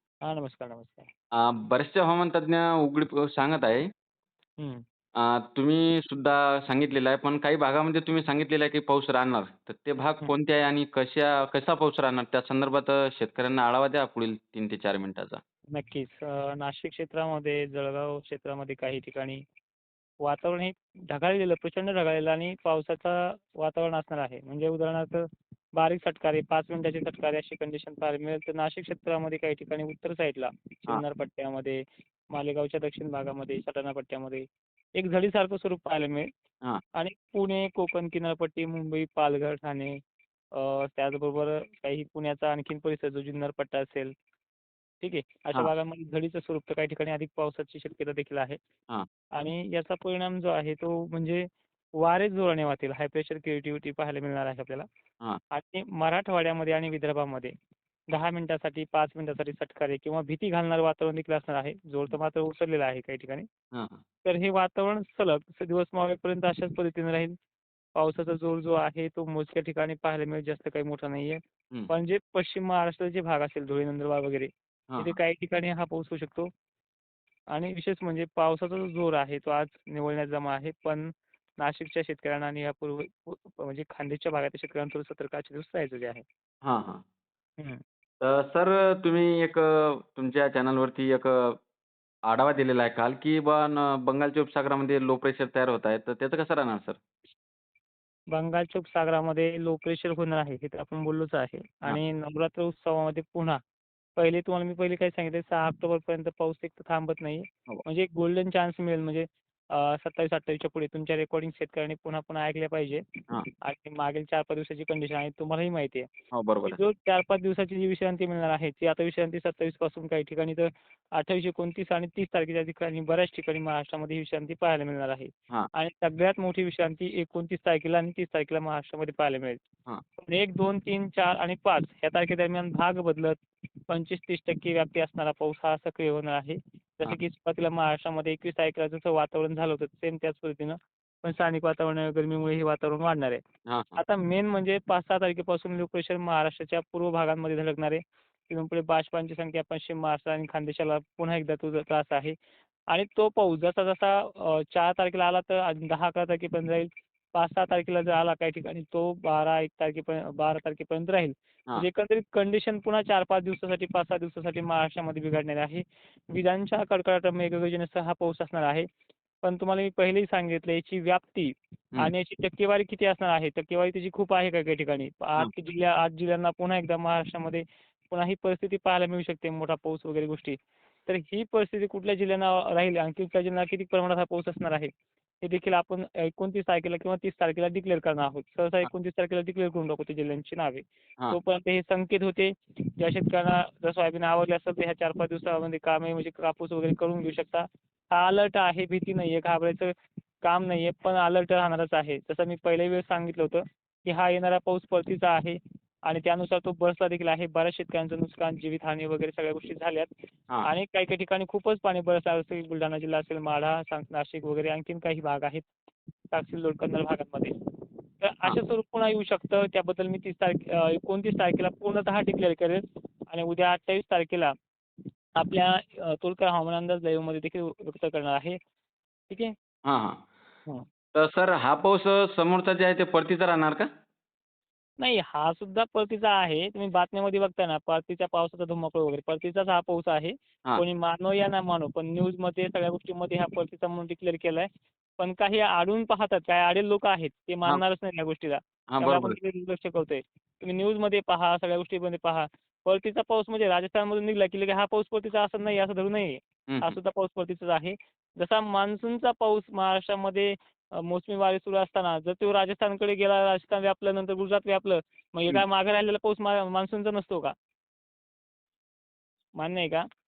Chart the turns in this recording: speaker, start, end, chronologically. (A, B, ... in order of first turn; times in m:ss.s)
0:00.2-0:01.1 A
0:01.4-0:03.9 B
0:05.2-0:15.4 B
0:15.7-0:19.4 A
0:20.2-0:31.8 A
0:32.3-0:36.3 A
0:37.0-0:40.0 A
0:40.5-0:44.1 A
0:45.0-0:48.6 A
0:49.4-0:54.9 A
0:55.5-0:57.5 A
0:58.1-1:03.5 A
1:03.7-1:04.0 B
1:04.2-1:07.4 A
1:08.0-1:16.5 A
1:14.9-1:15.2 B
1:17.5-1:26.2 A
1:26.6-1:27.0 B
1:28.2-1:31.6 B
1:32.3-1:37.0 B
1:38.3-1:43.6 A
1:44.2-1:53.0 A
1:53.6-1:56.1 A
1:56.3-1:56.8 B
1:56.7-2:09.6 A
2:10.2-2:23.4 A
2:23.7-2:24.0 B
2:24.0-2:32.4 A
2:32.9-2:48.9 A
2:49.4-3:04.9 A
3:05.4-3:19.9 A
3:20.4-3:30.1 A
3:30.6-3:35.7 A
3:36.3-3:37.5 A
3:38.2-3:44.5 A
3:45.4-3:48.6 A
3:49.9-3:50.3 B
3:51.1-3:53.9 B
3:55.0-4:04.7 A
4:05.2-4:27.5 A
4:08.9-4:09.4 B
4:16.7-4:17.0 B
4:29.6-4:30.0 A